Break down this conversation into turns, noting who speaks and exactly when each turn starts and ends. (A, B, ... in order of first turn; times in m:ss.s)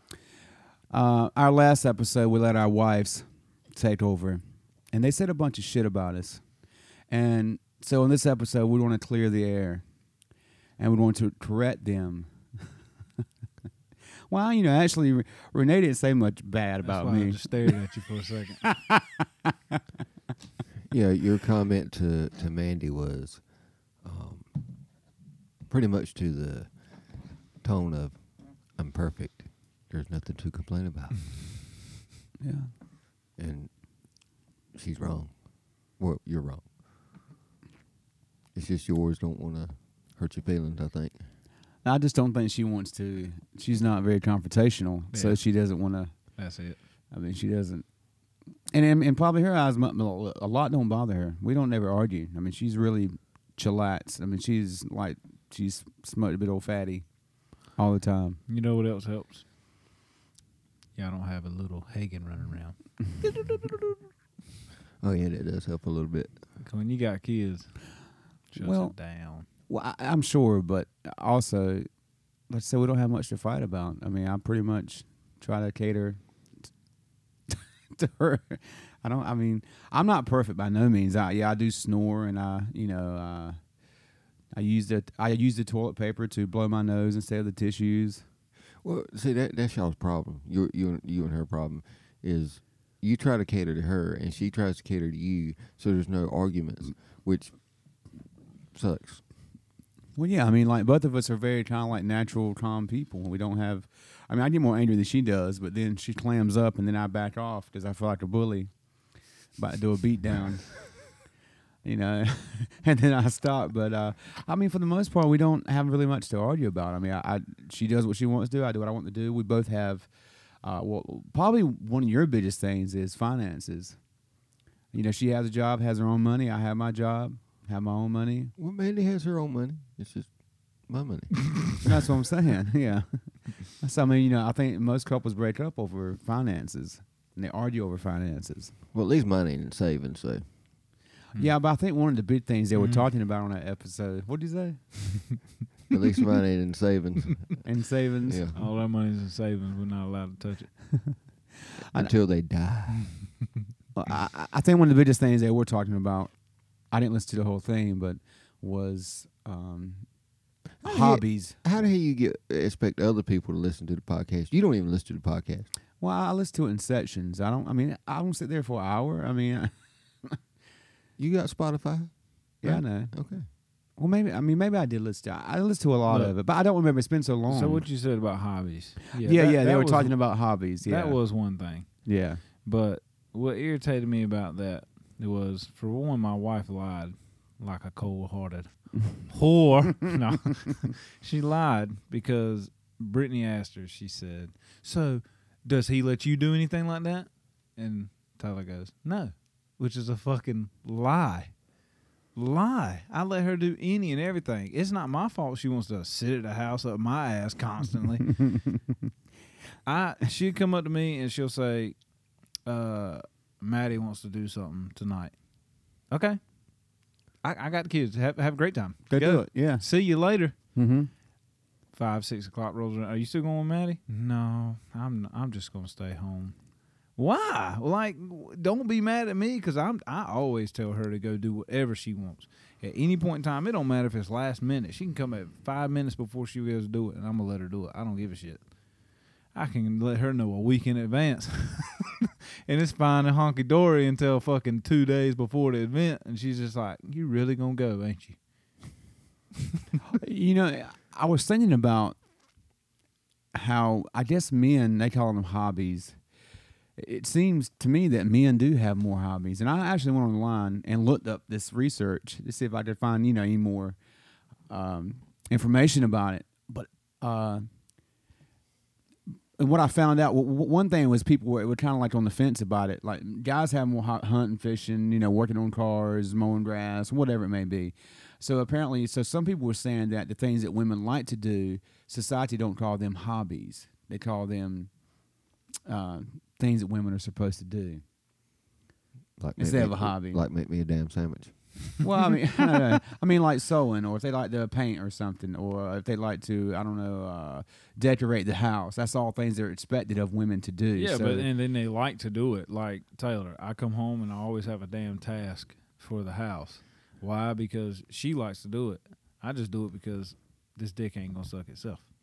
0:00.9-0:04.4 A
0:04.9-0:06.4 A
0:07.1-0:09.8 A
0:10.8-0:12.3 A
0:14.3-0:17.7 A
0:16.8-0:18.7 B
0:18.6-0:19.8 A
0:20.9-0:23.4 C
0:24.0-0:24.5 C
0:25.7-0:26.8 C
0:27.6-0:31.3 C
0:32.4-0:32.7 A
0:33.4-0:33.7 C
0:34.7-0:36.6 C
0:38.5-0:41.2 C
0:41.8-0:46.2 A
0:45.1-0:45.4 B
0:46.4-0:46.8 B
0:47.1-0:47.8 A
0:48.7-0:57.0 A
0:57.8-0:58.4 A
0:58.5-0:59.4 B
1:01.0-1:04.0 B
1:05.0-1:06.3 C
1:06.6-1:07.7 B
1:08.5-1:09.4 B
1:08.5-1:08.9 A
1:09.7-1:11.9 A
1:12.5-1:16.2 A
1:17.5-1:23.6 A
1:24.5-1:28.2 A
1:28.8-1:37.6 C
1:38.7-1:39.2 C
1:40.2-1:48.7 A
1:49.6-1:50.9 A
1:51.8-2:00.1 A
2:00.6-2:04.0 A
2:04.9-2:08.5 A
2:08.6-2:10.3 C
2:10.8-2:11.8 C
2:11.8-2:18.7 A
2:18.9-2:20.4 C
2:21.3-2:25.2 A
2:22.7-2:23.0 B
2:25.9-2:27.6 C
2:27.6-2:28.4 A
2:28.3-2:28.6 C
2:28.5-2:30.7 B
2:31.9-2:33.0 C
2:33.9-2:36.3 A
2:36.9-2:40.0 A
2:40.8-2:41.6 A
2:40.8-2:45.7 C
2:46.0-2:49.7 A
2:51.2-2:53.4 C
2:52.6-2:53.1 A
2:54.0-2:57.8 A
2:56.1-2:56.3 B
2:57.5-3:02.1 B
2:59.2-3:01.2 A
3:02.0-3:02.4 A
3:02.6-3:21.5 B
3:22.4-3:28.6 B
3:29.8-3:32.0 B
3:32.6-3:35.3 B
3:36.1-3:36.4 B
3:37.4-3:40.5 B
3:39.1-3:39.8 A
3:40.7-3:41.1 A
3:41.9-3:46.5 B
3:47.2-3:58.6 B
3:59.5-4:08.4 B
4:10.2-4:12.2 A
4:13.5-4:16.2 A
4:17.0-4:24.0 A
4:24.7-4:27.6 A
4:29.6-4:44.9 A
4:45.8-4:48.0 A
4:49.4-4:51.8 C
4:49.6-4:50.4 A
4:52.0-5:01.5 A
5:01.0-5:12.0 B